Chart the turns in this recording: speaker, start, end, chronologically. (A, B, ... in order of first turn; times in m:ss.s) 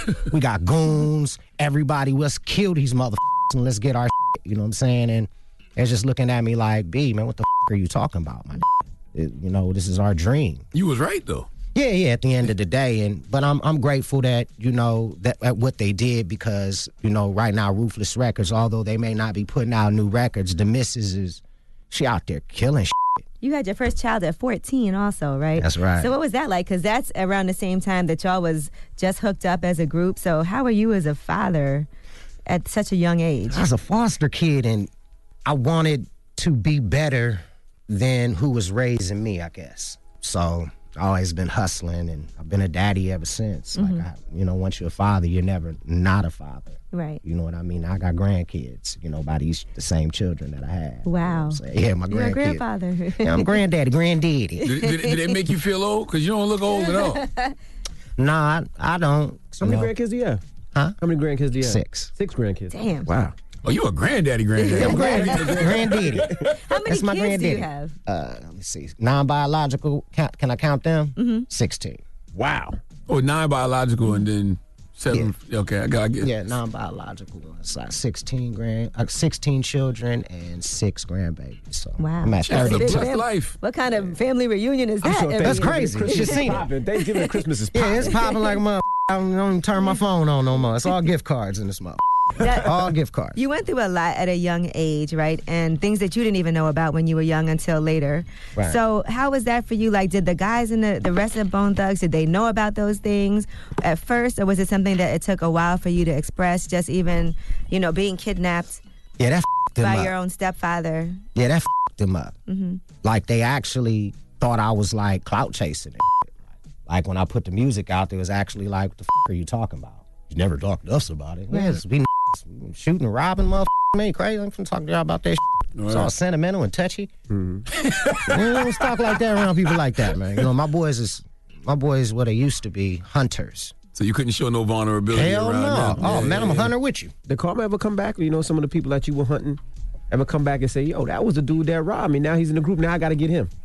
0:00.3-0:10.6 A
0:10.7-0:11.5 B
0:11.7-0:23.2 A
0:23.4-0:31.9 C
0:25.6-0:26.1 A
0:32.5-0:33.6 C
0:33.5-0:34.9 A
0:35.4-0:52.6 A
0:43.8-0:44.0 C
0:46.9-0:47.2 C
0:51.0-0:53.6 C
0:53.2-0:54.7 A
0:54.6-0:57.2 B
0:54.8-0:55.3 C
0:56.8-0:57.5 C
0:58.2-0:59.9 A
0:59.6-1:00.4 D
1:01.0-1:03.3 D
1:01.6-1:02.1 A
1:02.7-1:03.1 C
1:03.6-1:06.0 B
1:04.6-1:05.3 C
1:04.7-1:06.4 D
1:04.8-1:06.3 A
1:06.6-1:07.9 C
1:06.8-1:12.0 A
1:11.2-1:11.4 C
1:12.3-1:12.8 D
1:13.1-1:16.3 B
1:16.2-1:23.1 A
1:22.0-1:26.5 C
1:22.4-1:23.6 B
1:25.0-1:28.2 D
1:25.4-1:26.7 A
1:27.7-1:33.4 A
1:28.1-1:28.4 C
1:32.4-1:32.7 C
1:33.4-1:48.8 C
1:49.2-1:50.1 A
1:49.8-1:51.2 C
1:51.3-1:52.3 A
1:52.5-1:52.8 C
1:52.9-1:56.3 A
1:56.8-2:07.1 A
2:01.5-2:01.8 C
2:05.8-2:06.1 B
2:07.3-2:07.6 D
2:07.7-2:08.6 B
2:08.3-2:13.7 A
2:13.9-2:16.7 B
2:15.1-2:17.1 A
2:17.3-2:19.6 D
2:20.1-2:23.5 D